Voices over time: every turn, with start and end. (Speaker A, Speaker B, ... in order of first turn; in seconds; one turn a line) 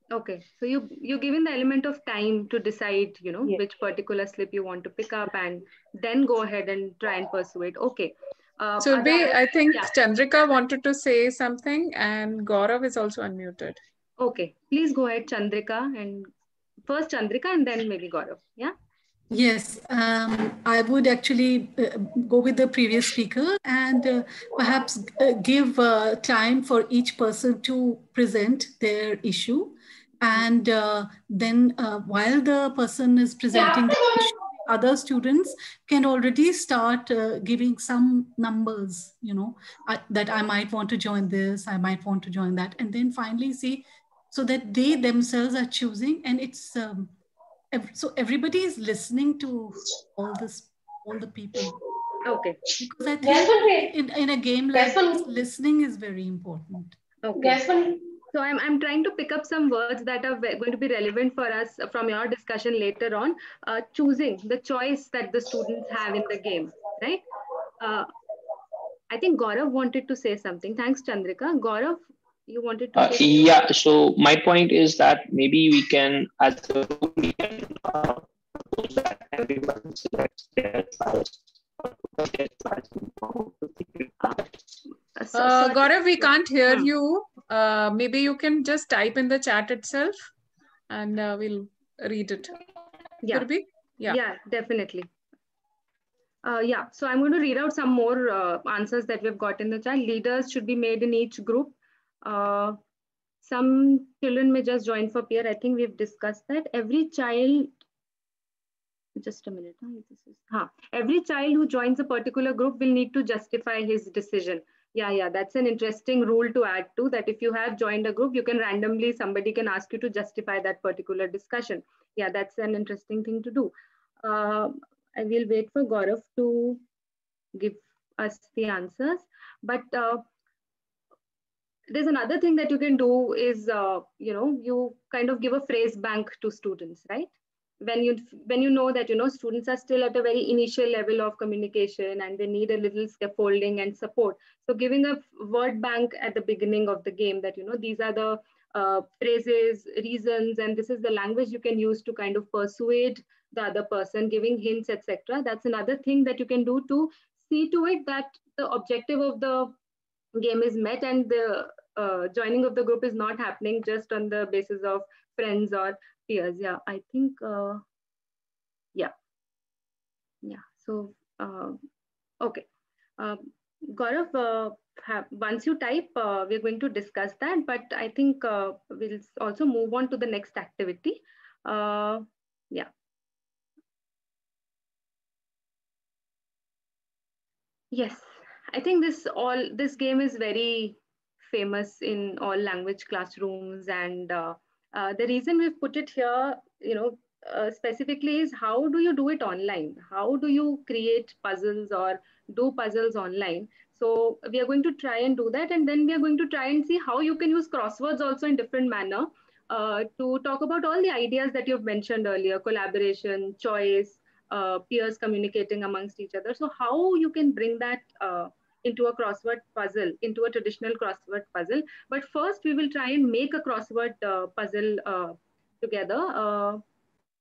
Speaker A: 0.1-9.9
Speaker B: 8.8-13.8
Speaker A: 14.2-16.3
Speaker A: 16.9-18.7
Speaker C: 19.3-47.1
Speaker C: 47.7-51.8
Speaker A: 52.2-52.6
Speaker C: 52.8-57.0
Speaker A: 57.2-57.6
Speaker A: 58.3-67.2
Speaker A: 67.8-68.1
Speaker A: 69.1-73.4
Speaker D: 73.0-84.6
Speaker A: 85.2-86.9
Speaker B: 85.3-90.2
Speaker B: 90.9-92.5
Speaker B: 93.3-94.2
Speaker A: 94.0-95.1
Speaker A: 96.4-102.8
Speaker A: 103.4-107.7
Speaker A: 109.2-126.8
Speaker A: 127.5-130.2
Speaker A: 131.9-137.3
Speaker A: 137.8-159.7
Speaker A: 160.3-167.8
Speaker A: 170.4-171.8
Speaker A: 172.4-172.7
Speaker A: 173.2-182.9
Speaker A: 187.9-226.8